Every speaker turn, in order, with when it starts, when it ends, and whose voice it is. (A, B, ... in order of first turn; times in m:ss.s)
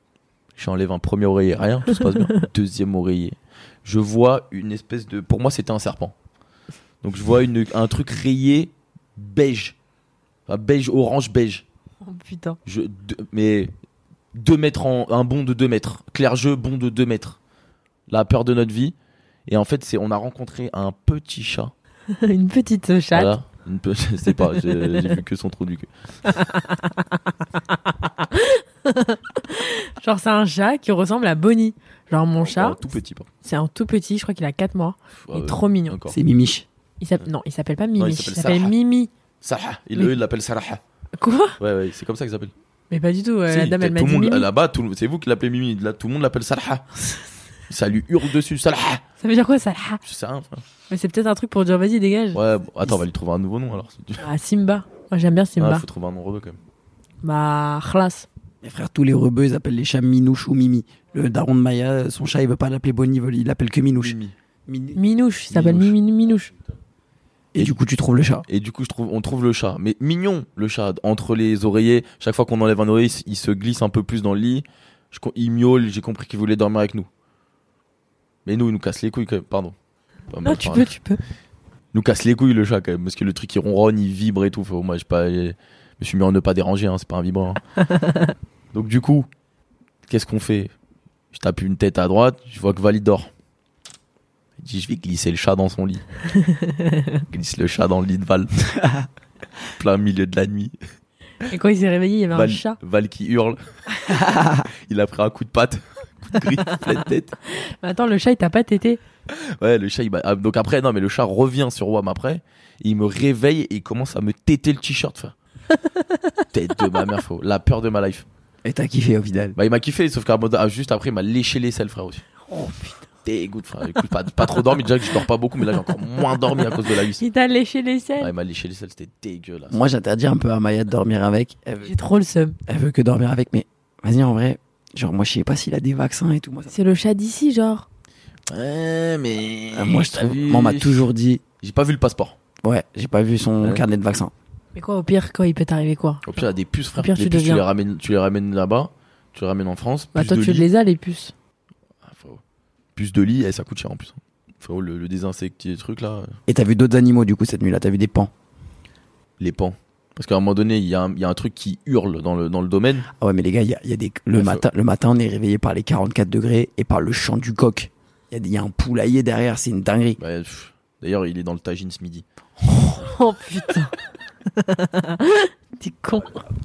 0:00.6-0:06.1 A
0:07.0-0:09.8 A
0:10.5-0:11.6 A
0:12.0-0:12.6 B
0:12.6-0:13.7 A
0:14.3-0:17.4 A
0:18.1-0:18.9 A
0:19.5-0:21.7 A
0:22.1-0:23.3 B
0:23.1-0:25.9 A
0:26.2-0:27.0 B
0:27.8-0:32.8 B
0:32.4-0:33.3 A
0:33.4-0:36.0 B
0:35.2-0:36.2 A
0:36.1-0:36.6 C
0:37.0-0:39.1 B
0:38.0-0:38.7 A
0:39.4-0:40.8 A
0:41.2-0:41.6 B
0:41.6-0:42.5 A
0:42.9-0:44.5 B
0:43.5-0:46.8 A
0:47.7-0:49.0 A
0:49.2-0:50.0 B
0:50.0-0:50.6 A
0:50.9-0:52.4 B
0:52.3-0:54.2 A
0:54.2-0:55.8 B
0:55.6-0:56.6 A
0:57.2-0:58.2 B
0:58.6-1:05.0 C
1:04.0-1:04.3 A
1:04.9-1:06.5 B
1:05.5-1:05.9 A
1:07.5-1:08.4 C
1:08.5-1:17.1 A
1:18.4-1:19.7 A
1:20.3-1:20.9 A
1:20.4-1:21.2 B
1:21.9-1:27.6 A
1:27.9-1:28.3 B
1:28.7-1:29.3 A
1:30.1-1:30.7 A
1:31.3-1:33.3 A
1:34.6-1:36.0 A
1:36.4-1:37.2 B
1:37.3-1:38.7 A
1:39.7-1:40.7 A
1:41.4-1:42.8 B
1:42.3-1:47.3 A
1:47.5-1:49.0 B
1:49.3-1:55.3 A
1:56.5-1:58.2 A
1:58.6-1:59.6 C
1:59.6-2:02.2 A
2:02.5-2:03.0 B
2:03.2-2:07.2 A
2:07.2-2:08.3 B
2:08.2-2:09.8 A
2:09.7-2:11.9 C
2:11.8-2:12.6 B
2:12.7-2:16.7 C
2:16.7-2:17.9 B
2:18.5-2:21.0 A
2:19.7-2:21.4 C
2:21.6-2:22.4 A
2:22.6-2:24.3 C
2:24.8-2:26.4 B
2:26.2-2:30.7 A
2:27.0-2:27.6 B
2:30.1-2:31.3 B
2:32.0-2:32.4 A
2:33.0-2:36.4 A
2:36.5-2:38.3 C
2:39.4-2:43.1 A
2:43.1-2:50.2 C
2:44.4-2:44.6 A
2:50.2-2:52.2 A
2:52.7-2:53.9 B
2:54.5-2:56.4 B